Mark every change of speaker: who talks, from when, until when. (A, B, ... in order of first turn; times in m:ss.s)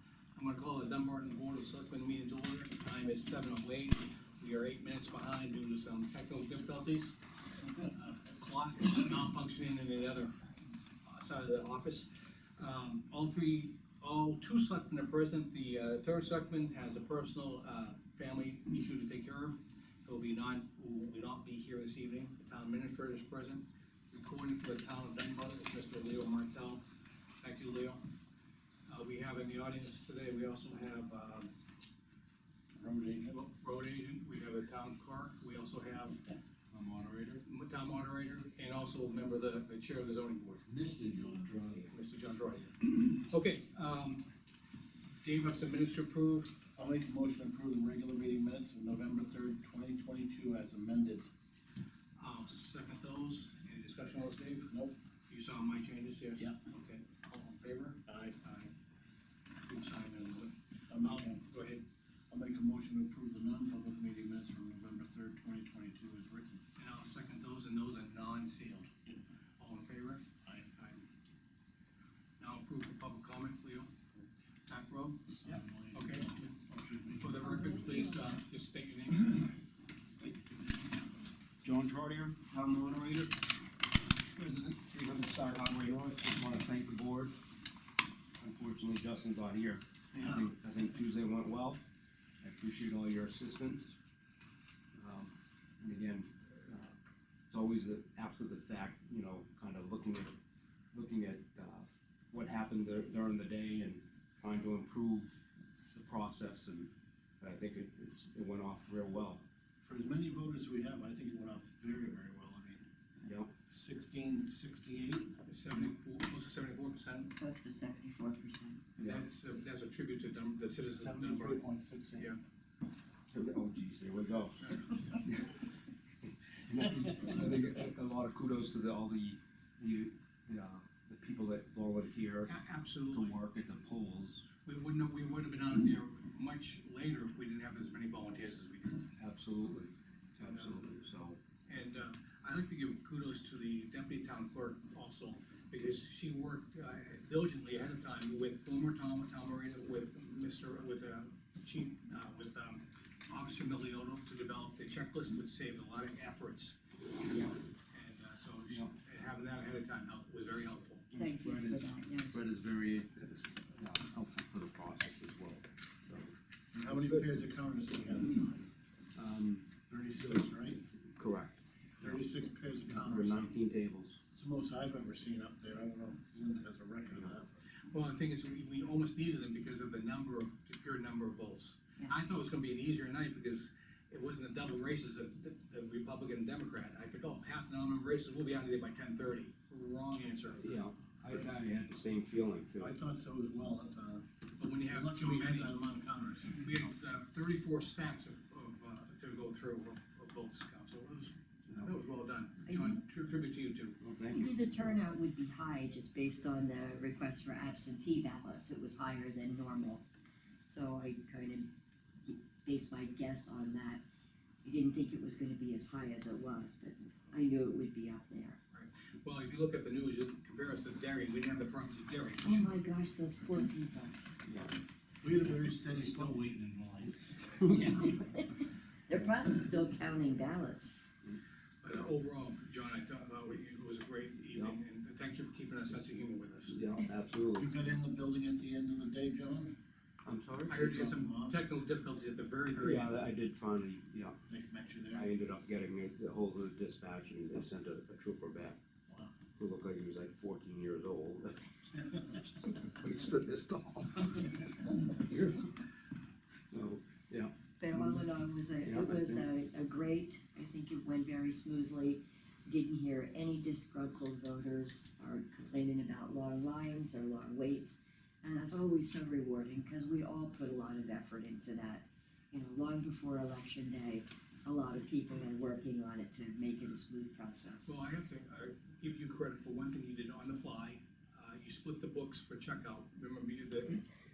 0:00.3-0:07.2 A
0:07.8-0:10.3 A
0:11.0-0:26.8 A
0:27.4-0:28.0 A
0:28.9-0:31.5 A
0:32.8-0:33.4 B
0:33.3-0:40.7 A
0:40.7-0:41.9 B
0:41.9-0:44.3 A
0:45.2-0:46.6 A
0:46.8-0:51.2 B
0:52.2-0:54.7 A
0:55.3-0:58.8 A
0:58.1-0:58.4 B
0:59.6-1:01.8 A
1:00.9-1:01.4 B
1:02.3-1:06.6 B
1:06.8-1:11.0 A
1:10.4-1:10.7 B
1:12.4-1:13.9 A
1:14.7-1:16.5 A
1:15.4-1:17.9 B
1:17.1-1:19.5 A
1:17.4-1:18.0 C
1:21.6-1:23.5 D
1:24.3-1:27.4 D
1:28.4-1:31.8 D
1:30.1-1:30.9 B
1:32.4-1:33.9 D
1:34.9-1:36.9 D
1:37.5-1:40.3 D
1:40.9-1:46.9 D
1:47.4-1:49.4 D
1:49.8-1:52.8 B
1:53.2-1:53.5 D
1:53.7-1:55.3 B
1:55.4-1:57.3 A
1:57.4-1:58.8 C
1:59.0-2:02.4 A
2:00.9-2:02.3 B
2:03.3-2:04.6 D
2:05.2-2:05.6 D
2:06.7-2:12.5 D
2:12.5-2:13.4 A
2:13.1-2:14.4 D
2:14.6-2:19.1 A
2:19.2-2:21.4 D
2:20.4-2:20.7 A
2:21.7-2:36.8 A
2:37.3-2:37.5 D
2:37.9-2:41.0 A
2:41.1-2:46.3 D
2:41.1-2:42.4 C
2:46.7-2:48.7 B
2:46.9-2:47.3 D
2:49.1-2:49.7 D
2:49.9-2:50.8 B
2:51.2-2:52.2 D
2:52.0-2:53.5 B
2:52.9-2:54.2 D
2:54.3-2:57.5 B
2:57.9-3:10.8 A
3:10.6-3:12.9 D
3:12.8-3:14.2 B
3:14.6-3:15.7 A
3:14.8-3:16.6 B
3:16.5-3:24.0 A
3:22.7-3:23.0 C
3:24.0-3:24.5 D
3:24.3-3:30.0 C
3:30.6-3:31.7 C
3:32.2-3:34.0 C
3:34.6-3:38.6 C
3:38.7-3:42.7 A
3:42.4-3:44.2 C
3:44.4-3:44.7 D
3:45.2-3:46.5 B
3:45.5-3:47.3 A
3:47.6-3:50.9 C
3:51.8-3:56.8 A
3:56.7-3:57.7 D
3:57.5-3:59.7 B
4:00.2-4:00.8 D
4:00.7-4:03.2 A
4:00.7-4:01.6 B
4:02.7-4:04.4 D
4:04.5-4:05.3 B
4:05.1-4:08.8 D
4:09.1-4:09.3 B
4:09.6-4:15.8 D
4:16.7-4:19.4 D
4:17.8-4:38.0 C
4:37.8-4:44.0 A